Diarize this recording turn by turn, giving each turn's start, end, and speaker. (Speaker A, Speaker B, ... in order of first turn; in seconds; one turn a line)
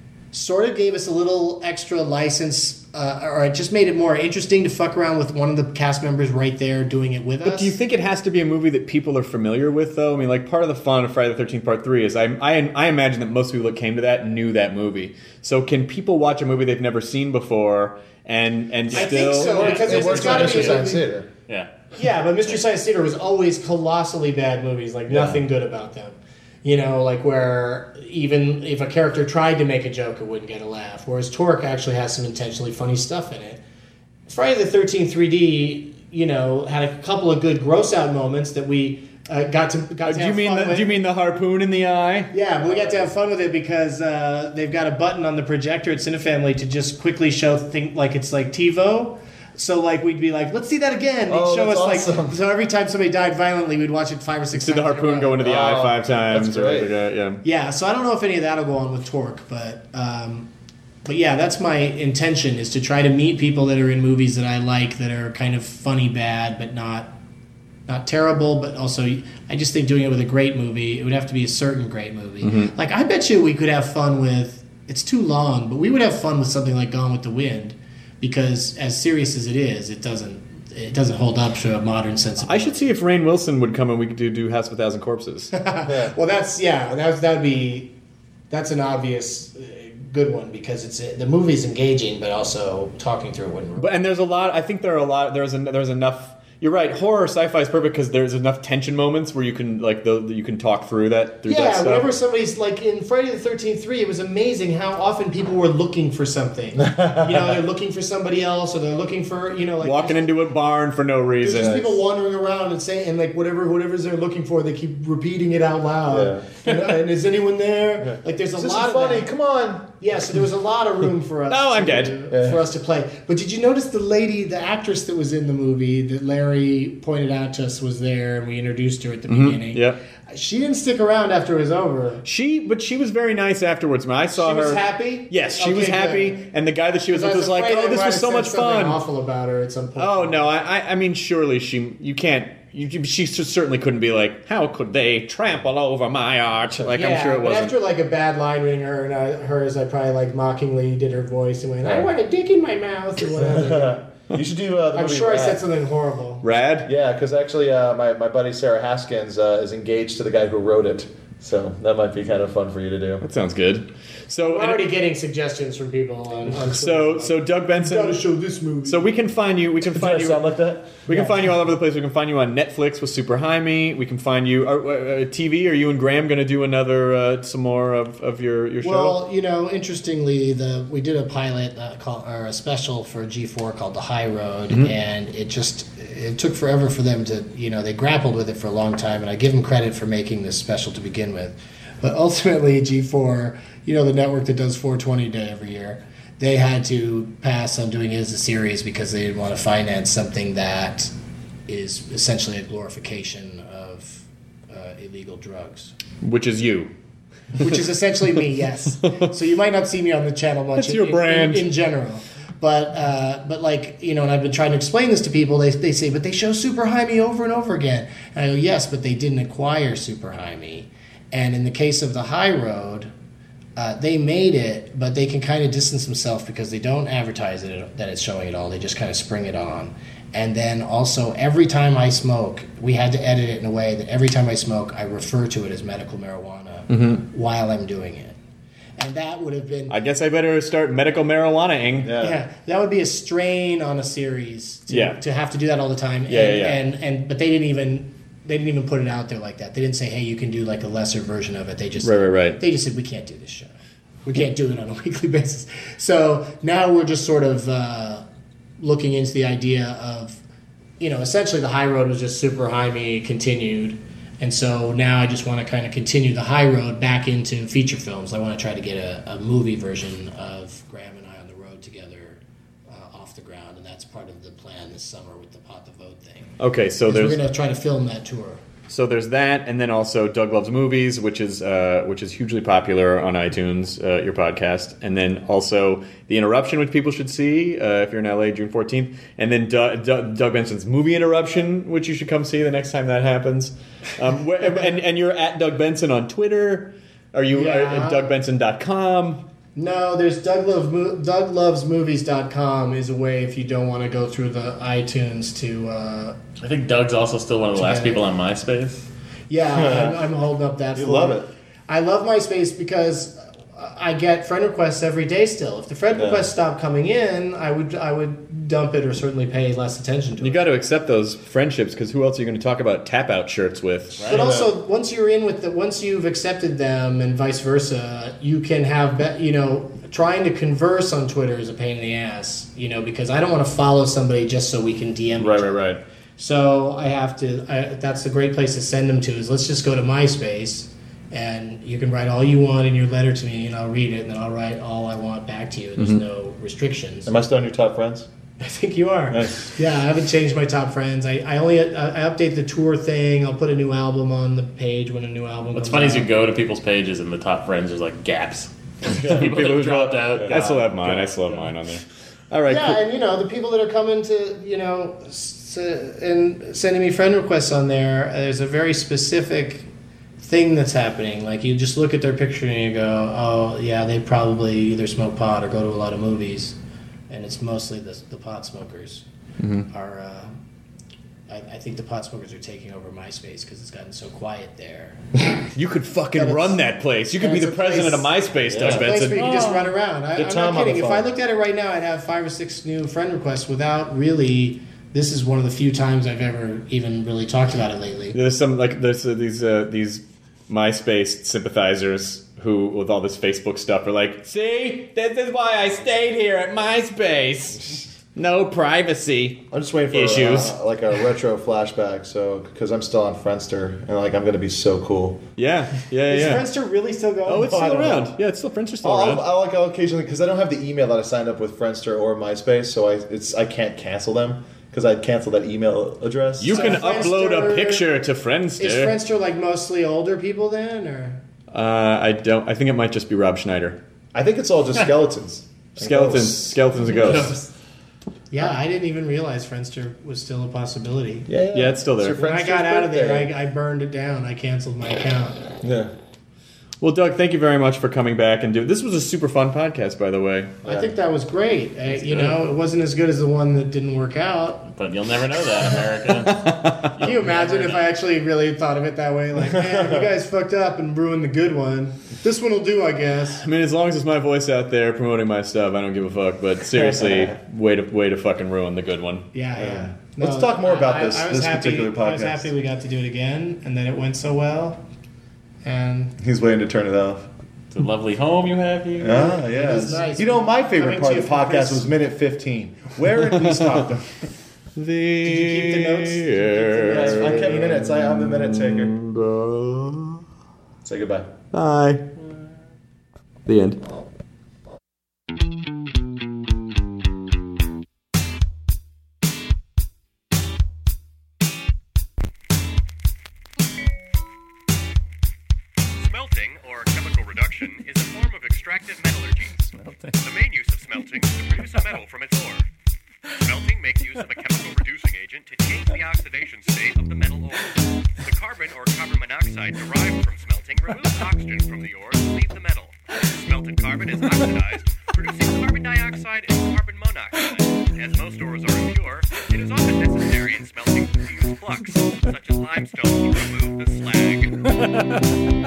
Speaker A: 0.3-7.8
Speaker B: 7.4-19.9
Speaker A: 18.9-21.1
Speaker C: 18.9-20.9
Speaker D: 19.6-21.3
Speaker C: 21.5-21.7
Speaker A: 21.9-33.6
Speaker D: 25.1-25.4
Speaker A: 34.3-40.9
Speaker B: 40.0-42.3
Speaker A: 42.3-55.4
Speaker D: 51.3-52.4
Speaker B: 54.5-57.4
Speaker D: 55.4-56.9
Speaker A: 57.4-60.5
Speaker A: 61.0-67.1
Speaker A: 67.9-82.9
Speaker B: 72.4-72.7
Speaker B: 82.4-85.5
Speaker A: 85.5-87.9
Speaker D: 85.8-86.1
Speaker A: 88.5-93.9
Speaker B: 93.8-102.2
Speaker A: 101.5-110.3
Speaker D: 106.8-107.5
Speaker B: 109.8-111.9
Speaker A: 111.4-119.3
Speaker D: 111.5-111.8
Speaker D: 116.1-116.5
Speaker D: 118.0-119.9
Speaker A: 120.0-132.2
Speaker B: 121.5-122.3
Speaker D: 122.3-122.6
Speaker B: 129.3-130.0
Speaker B: 132.2-139.0
Speaker A: 134.3-136.4
Speaker A: 137.1-140.5
Speaker B: 140.0-147.8
Speaker A: 146.9-154.0
Speaker D: 151.8-152.1
Speaker D: 153.4-155.6
Speaker A: 154.9-156.4
Speaker B: 156.4-156.9
Speaker D: 156.8-163.2
Speaker B: 163.2-164.8
Speaker A: 164.5-169.1
Speaker B: 166.6-168.2
Speaker B: 168.8-170.4
Speaker D: 169.8-171.0
Speaker B: 171.1-179.2
Speaker A: 171.1-171.4
Speaker A: 178.8-201.1
Speaker A: 201.7-205.9
Speaker B: 206.2-206.9
Speaker A: 207.6-223.1
Speaker B: 210.8-211.7
Speaker A: 223.8-238.4
Speaker B: 236.9-237.2
Speaker A: 239.0-239.9
Speaker B: 239.9-242.1
Speaker D: 242.0-242.4
Speaker A: 242.2-258.2
Speaker B: 244.9-245.2
Speaker B: 246.3-246.8
Speaker B: 252.0-252.6
Speaker A: 258.8-260.4
Speaker A: 261.0-278.6
Speaker B: 276.6-277.4
Speaker B: 278.9-299.4
Speaker A: 297.5-298.3
Speaker A: 299.8-306.4
Speaker C: 306.6-309.1
Speaker A: 307.7-308.2
Speaker A: 309.5-320.6
Speaker D: 309.7-310.2
Speaker D: 310.9-311.5
Speaker D: 316.1-316.5
Speaker B: 320.4-324.2
Speaker D: 324.2-324.7
Speaker A: 324.2-335.8
Speaker B: 335.4-336.0
Speaker A: 336.4-347.4
Speaker D: 347.2-348.3
Speaker A: 348.6-356.3
Speaker D: 349.3-349.7
Speaker C: 355.7-361.3
Speaker B: 359.1-363.0
Speaker D: 359.1-360.6
Speaker A: 362.7-369.9
Speaker A: 370.4-376.8
Speaker A: 377.3-379.2
Speaker B: 379.6-379.9
Speaker A: 379.9-380.6
Speaker A: 381.5-385.2
Speaker B: 385.7-389.7
Speaker A: 386.3-398.4
Speaker D: 388.8-389.8
Speaker D: 390.3-391.3
Speaker B: 398.3-407.8
Speaker B: 408.3-410.7
Speaker D: 409.7-415.4
Speaker B: 415.6-416.7
Speaker A: 416.3-418.2
Speaker B: 417.5-419.4
Speaker D: 417.6-418.3
Speaker D: 419.0-427.0
Speaker B: 426.6-429.2
Speaker A: 426.7-428.1
Speaker A: 428.8-431.4
Speaker B: 431.7-434.0
Speaker D: 434.3-436.8
Speaker B: 436.0-437.5
Speaker A: 438.5-441.5
Speaker D: 441.5-443.5
Speaker B: 441.7-442.4
Speaker A: 442.2-445.6
Speaker D: 445.8-446.1
Speaker B: 447.0-450.8
Speaker A: 450.8-454.9
Speaker C: 454.9-458.0
Speaker B: 456.5-457.3
Speaker A: 457.2-463.6
Speaker D: 459.7-460.2
Speaker B: 463.6-469.5
Speaker D: 467.0-467.5
Speaker A: 469.5-475.0
Speaker D: 469.7-472.7
Speaker A: 475.8-476.4
Speaker D: 476.4-477.5
Speaker C: 477.9-479.6
Speaker D: 479.2-484.2
Speaker A: 479.4-482.1
Speaker B: 483.6-483.9
Speaker B: 485.0-490.4
Speaker A: 485.4-487.8
Speaker D: 487.0-489.1
Speaker D: 491.0-491.5
Speaker B: 491.7-492.2
Speaker B: 493.6-494.0
Speaker E: 506.2-509.8
Speaker E: 510.3-512.8
Speaker E: 513.6-534.8